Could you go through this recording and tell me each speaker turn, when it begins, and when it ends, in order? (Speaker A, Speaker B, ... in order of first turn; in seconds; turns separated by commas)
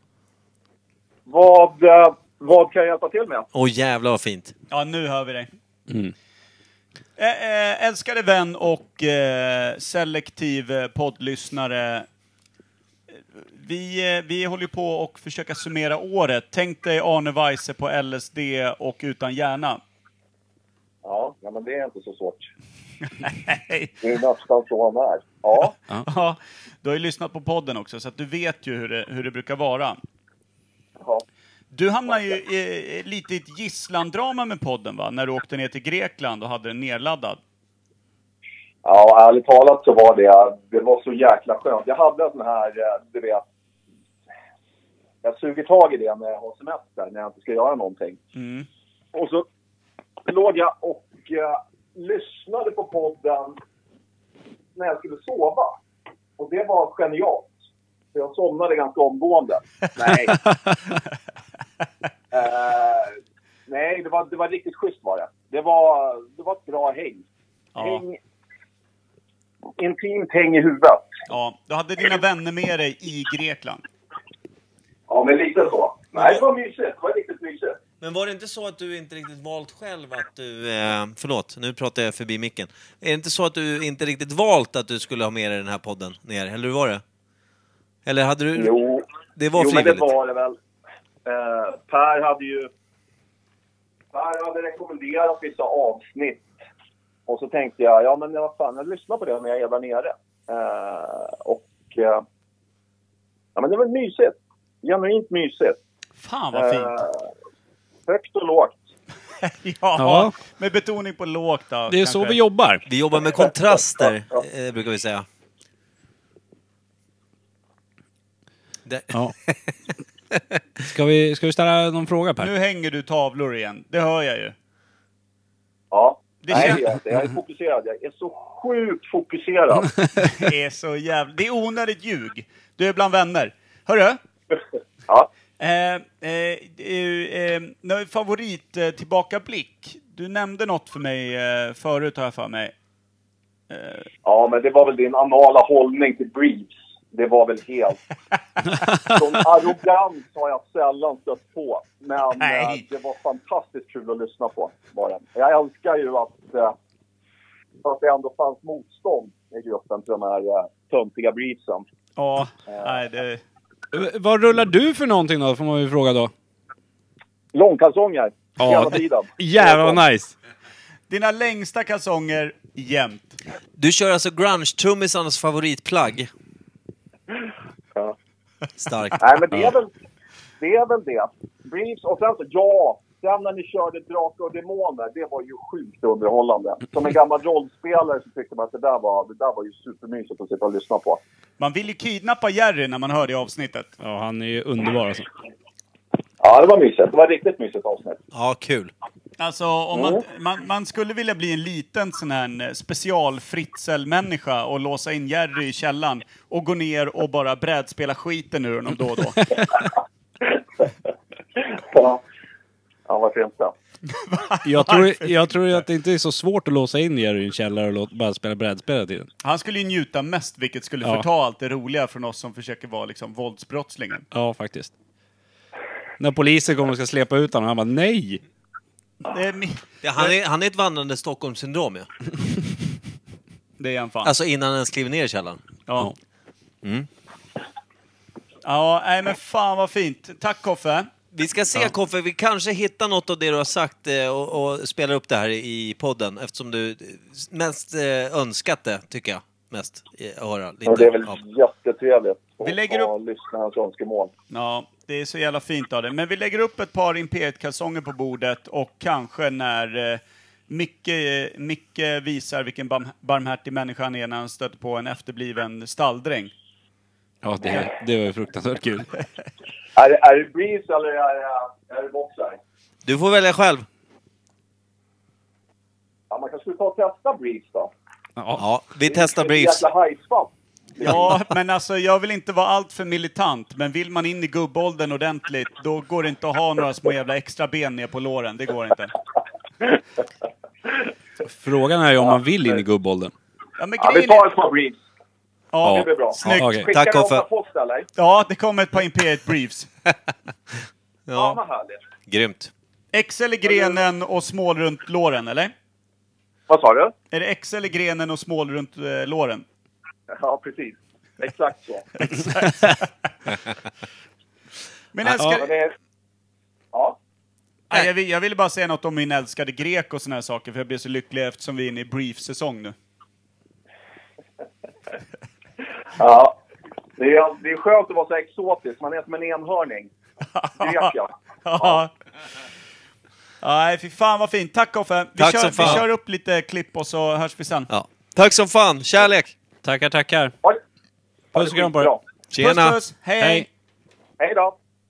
Speaker A: 1.3-3.5, Speaker B: 3.5-4.5, Speaker C: 4.7-5.5, Speaker D: 5.9-6.1, Speaker C: 7.2-12.1, Speaker C: 13.3-19.8, Speaker A: 21.0-22.5, Speaker C: 23.2-23.9, Speaker A: 24.0-25.7, Speaker C: 26.0-30.0, Speaker C: 31.7-37.4, Speaker A: 32.1-32.4, Speaker A: 38.8-43.4, Speaker A: 45.2-48.2, Speaker C: 48.4-48.6, Speaker A: 49.1-49.4, Speaker A: 50.3-53.6, Speaker A: 54.8-55.7, Speaker A: 56.4-57.5, Speaker A: 58.1-60.5, Speaker A: 62.3-63.1, Speaker A: 63.7-67.2, Speaker C: 67.7-68.0, Speaker A: 67.8-68.2, Speaker A: 69.8-71.1, Speaker C: 71.3-73.8, Speaker A: 75.1-77.8, Speaker B: 78.0-87.0, Speaker B: 88.0-88.8, Speaker A: 88.5-89.0, Speaker B: 89.3-90.1, Speaker A: 89.5-90.5, Speaker A: 91.2-92.7, Speaker A: 94.1-96.5, Speaker A: 97.3-102.2, Speaker A: 103.5-105.8, Speaker C: 106.2-107.0, Speaker A: 106.5-107.2, Speaker A: 108.1-108.8, Speaker C: 109.4-112.4, Speaker D: 110.0-110.3, Speaker D: 111.9-112.8, Speaker B: 112.9-115.2, Speaker B: 118.8-119.7, Speaker D: 120.8-122.5, Speaker C: 122.4-124.5, Speaker A: 125.9-129.9, Speaker C: 126.4-126.8, Speaker C: 130.3-134.2, Speaker C: 135.6-142.7, Speaker C: 143.7-144.1, Speaker A: 144.2-148.0, Speaker A: 149.1-156.7, Speaker C: 152.4-152.8, Speaker A: 157.8-161.8, Speaker C: 162.2-163.4, Speaker D: 163.9-166.3, Speaker A: 167.5-170.0, Speaker D: 168.6-170.3, Speaker C: 171.1-173.4, Speaker B: 173.8-176.3, Speaker B: 178.8-179.7, Speaker A: 179.2-179.9, Speaker A: 180.6-191.2, Speaker C: 191.6-193.9, Speaker D: 194.0-195.3, Speaker A: 196.4-198.2, Speaker B: 198.3-198.9, Speaker C: 199.4-209.7, Speaker A: 199.9-200.2, Speaker A: 211.8-212.2, Speaker A: 213.1-213.7, Speaker C: 214.1-215.5, Speaker D: 214.6-219.3, Speaker C: 219.4-224.2, Speaker D: 224.3-224.9, Speaker D: 226.2-228.4, Speaker C: 229.2-230.3, Speaker B: 230.0-232.1, Speaker C: 233.8-234.3, Speaker B: 234.2-235.6, Speaker B: 236.8-237.1, Speaker C: 238.6-241.1, Speaker B: 241.3-251.4, Speaker A: 250.8-254.3, Speaker C: 252.6-253.1, Speaker C: 254.5-266.5, Speaker D: 267.4-269.1, Speaker A: 269.9-272.6, Speaker B: 273.0-273.9, Speaker A: 276.3-277.9, Speaker D: 278.4-278.6, Speaker B: 278.6-279.8, Speaker A: 279.1-281.3, Speaker C: 281.0-289.1, Speaker D: 291.4-293.3, Speaker A: 292.3-292.8, Speaker C: 293.8-294.5, Speaker A: 294.0-295.0, Speaker C: 295.7-296.9, Speaker D: 295.8-296.9, Speaker A: 295.9-298.1, Speaker B: 296.4-297.4, Speaker C: 298.2-299.9, Speaker B: 301.3-301.6, Speaker A: 301.3-302.0, Speaker B: 302.3-302.7, Speaker C: 303.1-305.7, Speaker A: 303.6-304.0, Speaker A: 306.7-307.1, Speaker C: 307.3-309.6, Speaker A: 310.3-312.1, Speaker C: 312.2-313.1, Speaker C: 315.1-315.7, Speaker D: 315.3-315.6, Speaker A: 315.5-315.9, Speaker C: 317.9-322.9, Speaker A: 326.2-326.6, Speaker A: 327.2-330.1, Speaker C: 330.5-331.1, Speaker A: 330.8-332.0, Speaker C: 331.6-332.1, Speaker C: 333.6-337.9, Speaker B: 335.4-336.1, Speaker B: 337.9-339.5, Speaker D: 339.8-340.5, Speaker D: 341.5-342.1, Speaker A: 341.5-342.2, Speaker B: 342.5-343.0, Speaker C: 342.6-343.7, Speaker D: 343.4-343.7, Speaker A: 344.4-344.7